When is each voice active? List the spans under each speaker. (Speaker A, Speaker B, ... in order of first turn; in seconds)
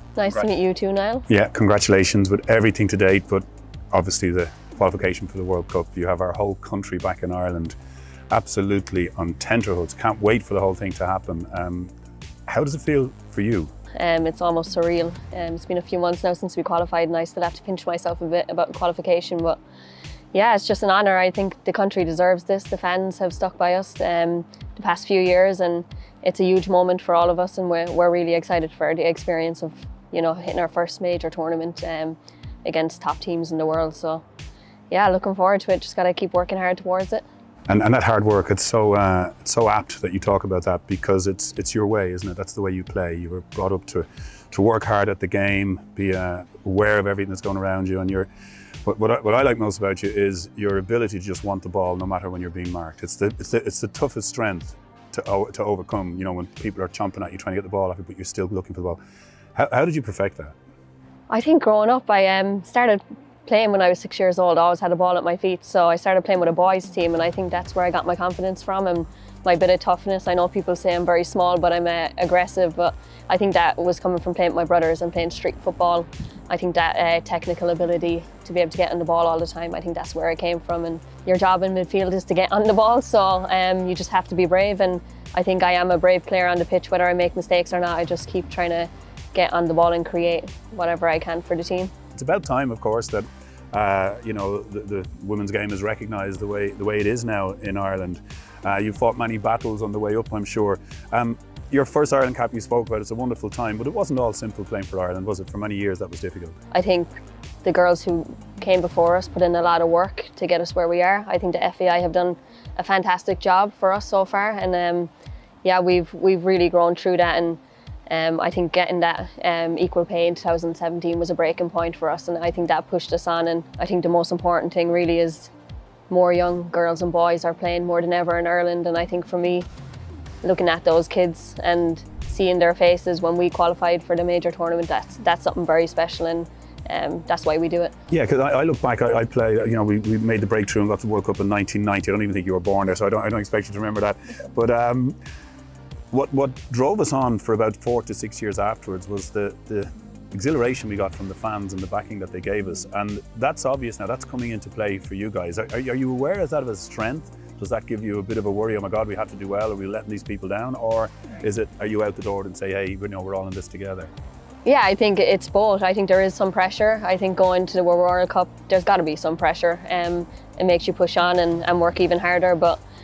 Speaker A: 0.2-1.3, 14.0-19.6, 20.3-34.2, 34.9-37.2, 61.3-91.9, 106.7-107.1, 107.6-115.1, 115.6-125.5, 126.1-129.7, 130.4-137.9, 164.7-172.8
Speaker B: 1.3-7.8, 8.3-11.9, 12.5-13.7, 37.7-48.3, 48.9-59.0, 59.6-60.5, 92.1-106.6, 138.1-145.2, 146.1-164.1